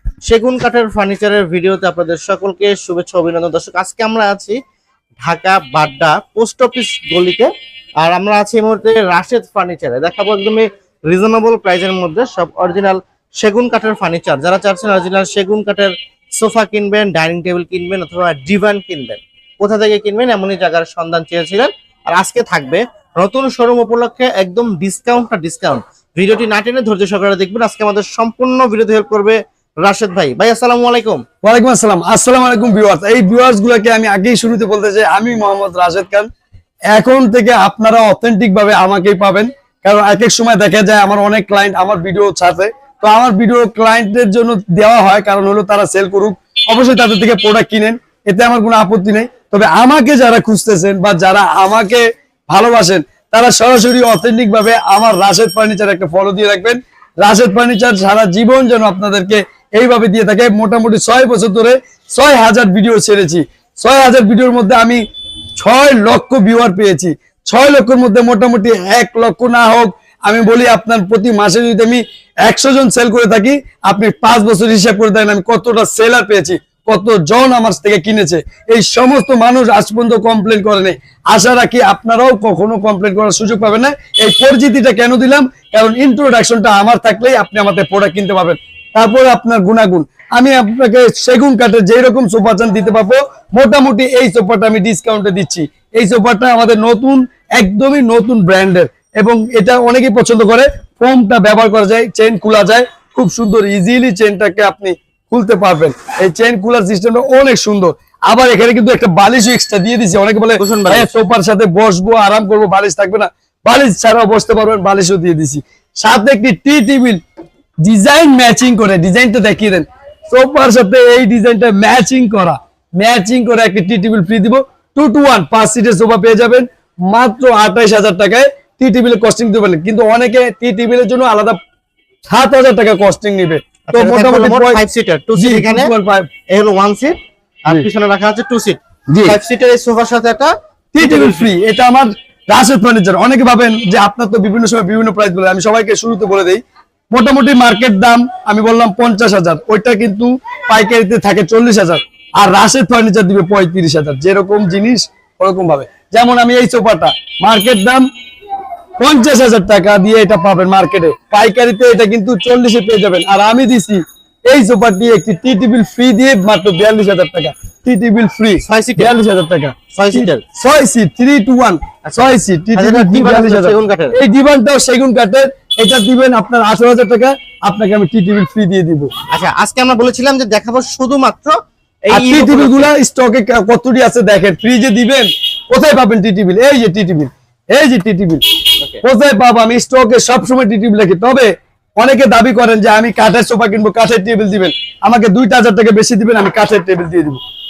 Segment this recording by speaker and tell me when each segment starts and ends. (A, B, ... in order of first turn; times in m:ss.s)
0:00.2-0:04.6 A
0:05.2-0:07.5 A
0:08.0-0:31.2 A
0:31.4-0:36.3 B
0:36.9-1:05.0 B
1:05.6-1:57.2 B
1:50.6-1:51.1 A
1:57.8-2:11.6 B
2:12.3-2:14.8 B
2:13.9-2:15.9 A
2:15.4-2:16.3 B
2:16.5-2:21.5 A
2:19.1-2:19.4 B
2:20.9-2:38.0 B
2:39.0-2:59.1 B
2:48.6-2:49.1 A
2:49.9-2:50.4 A
2:52.0-2:54.2 A
2:59.3-3:02.9 A
3:02.1-3:08.4 B
3:09.0-3:17.4 B